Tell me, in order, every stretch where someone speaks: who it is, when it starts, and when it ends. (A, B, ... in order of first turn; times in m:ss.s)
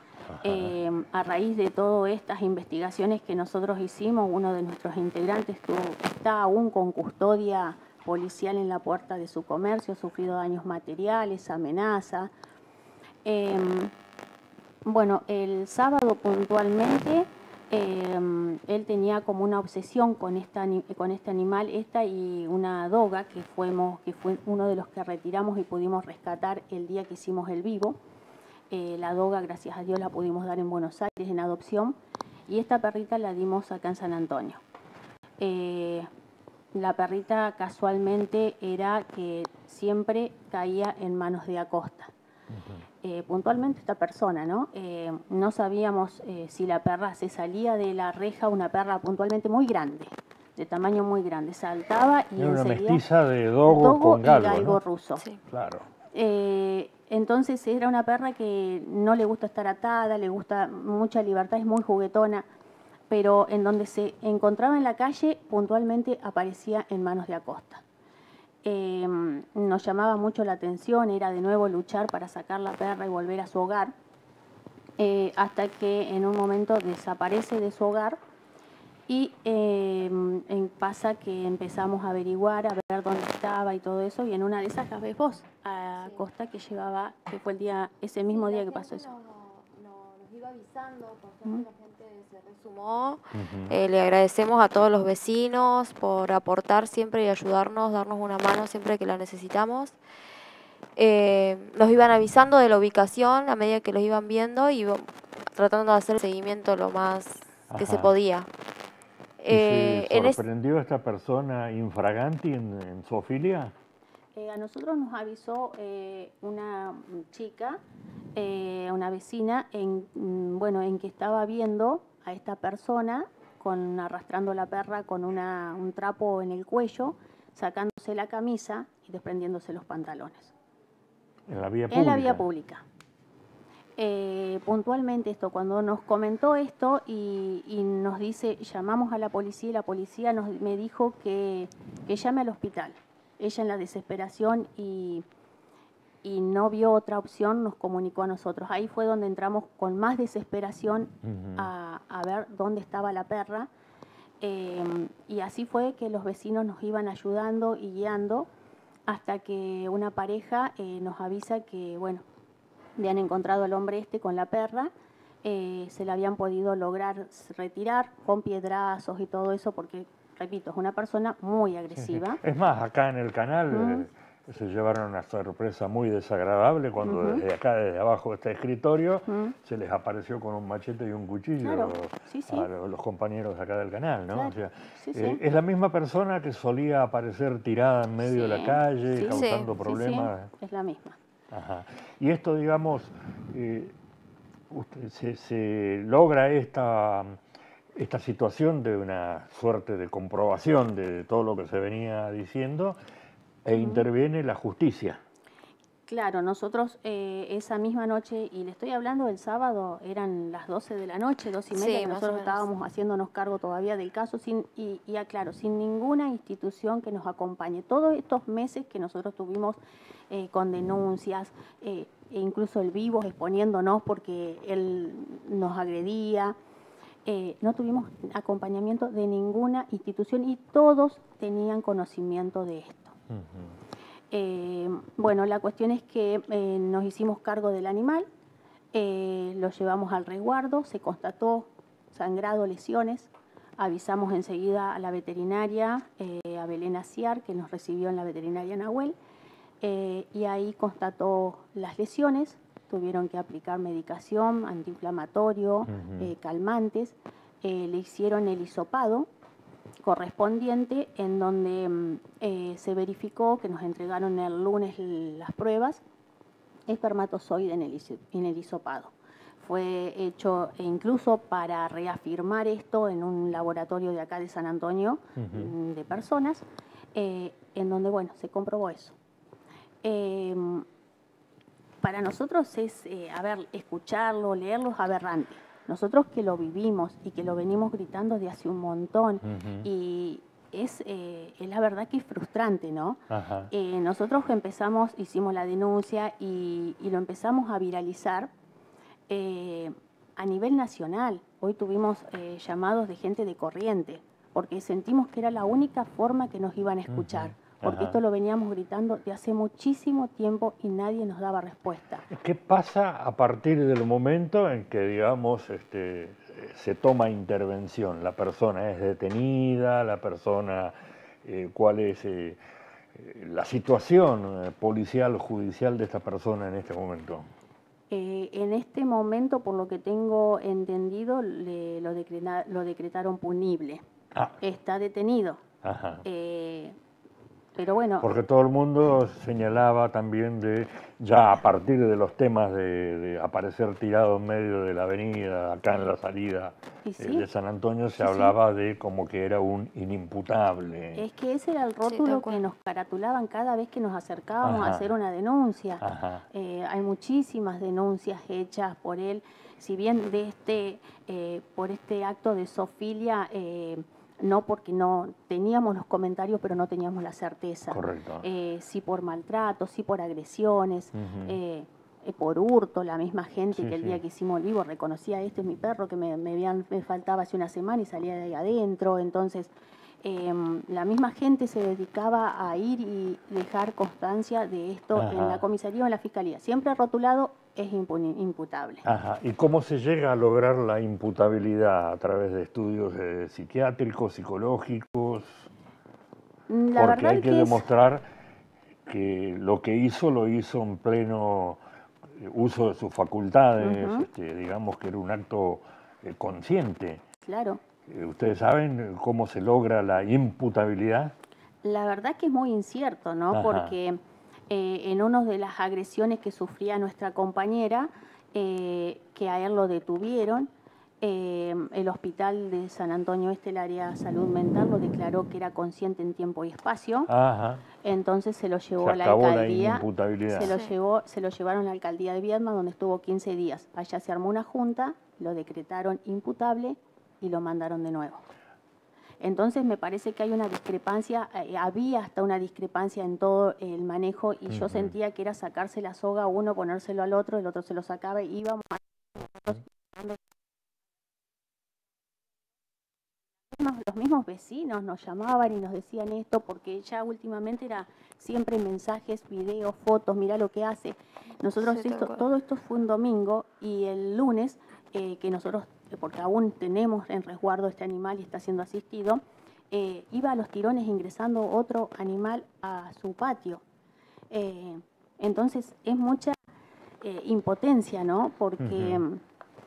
0:00.3-0:00.8 A
0:00.4-0:12.3 B
0:13.2-0:13.9 B
0:14.8-0:28.0 B
0:28.7-0:32.0 B
0:32.5-0:34.6 B
0:35.4-0:36.1 B
0:36.7-0:42.1 B
0:42.5-0:42.9 A
0:43.0-0:53.0 B
0:52.4-0:54.8 A
0:53.6-0:55.3 B
0:55.5-0:55.9 A
0:56.1-1:02.5 B
1:03.1-1:07.8 B
1:08.6-1:13.9 B
1:15.0-1:18.2 B
1:19.1-1:29.1 B
1:26.0-1:26.2 C
1:28.3-1:40.0 C
1:33.4-1:33.8 A
1:41.0-1:48.5 C
1:47.7-1:48.1 A
1:49.4-1:50.4 C
1:49.5-1:53.7 A
1:54.4-1:57.8 B
1:58.4-2:10.5 B
2:11.5-2:12.5 A
2:11.9-2:12.8 B
2:14.0-2:25.2 B
2:26.2-2:33.7 B
2:31.2-2:31.7 A
2:34.4-2:38.5 B
2:39.1-2:42.2 B
2:43.0-2:44.9 B
2:45.4-2:52.4 B
2:51.9-3:10.5 A
2:53.7-2:54.1 B
2:57.0-2:57.4 B
2:59.3-2:59.6 B
3:01.6-3:02.7 B
3:04.3-3:05.4 B
3:08.2-3:11.2 B
3:09.2-3:09.8 C
3:11.5-3:13.9 A
3:14.7-3:17.4 A
3:18.0-3:23.0 A
3:23.6-3:25.2 A
3:23.7-3:24.1 B
3:26.1-3:39.8 B
3:31.7-3:32.7 C
3:40.3-3:46.6 B
3:47.3-3:53.2 B
3:53.3-3:53.8 A
3:54.3-3:58.3 B
3:58.9-4:09.2 B
4:09.8-4:19.3 B
4:15.9-4:16.3 A
4:20.0-4:26.0 B
4:26.9-4:39.2 B
4:35.4-4:35.7 A
4:40.0-4:40.9 B
4:42.0-4:58.5 B
4:49.4-4:49.9 A
4:53.3-4:53.7 A
4:59.3-5:12.2 B
5:07.1-5:08.2 A
5:12.3-5:22.6 A
5:23.2-5:27.5 A
5:28.1-5:34.0 B
5:34.6-5:35.6 B
5:35.8-5:36.2 A
5:36.2-5:37.0 B
5:37.8-5:38.3 B
5:38.2-5:51.2 A
5:47.0-5:47.5 B
5:48.2-5:48.6 B
5:51.2-6:19.7 B
5:52.0-5:52.6 C
5:54.6-5:55.1 A
5:56.0-5:56.4 A
6:07.9-6:08.5 A
6:11.2-6:11.6 A
6:13.7-6:14.2 A
6:20.2-6:29.0 B
6:25.1-6:25.7 A
6:29.0-6:35.7 A
6:36.7-6:37.8 B
6:37.0-6:38.3 A
6:39.1-6:41.8 A
6:42.4-6:47.2 A
6:43.8-6:44.3 B
6:47.4-6:47.8 B
6:48.1-6:51.3 A
6:51.8-7:00.7 B
6:53.5-6:54.0 A
7:01.2-7:07.3 B
7:07.3-7:07.9 A
7:08.0-7:18.4 B
7:09.0-7:10.8 A
7:10.6-7:11.0 C
7:19.4-7:30.4 B
7:24.7-7:25.2 A
7:33.7-7:53.8 B
7:41.8-7:42.4 C
7:54.5-7:56.6 B
7:57.2-7:59.4 B
7:58.8-7:59.2 A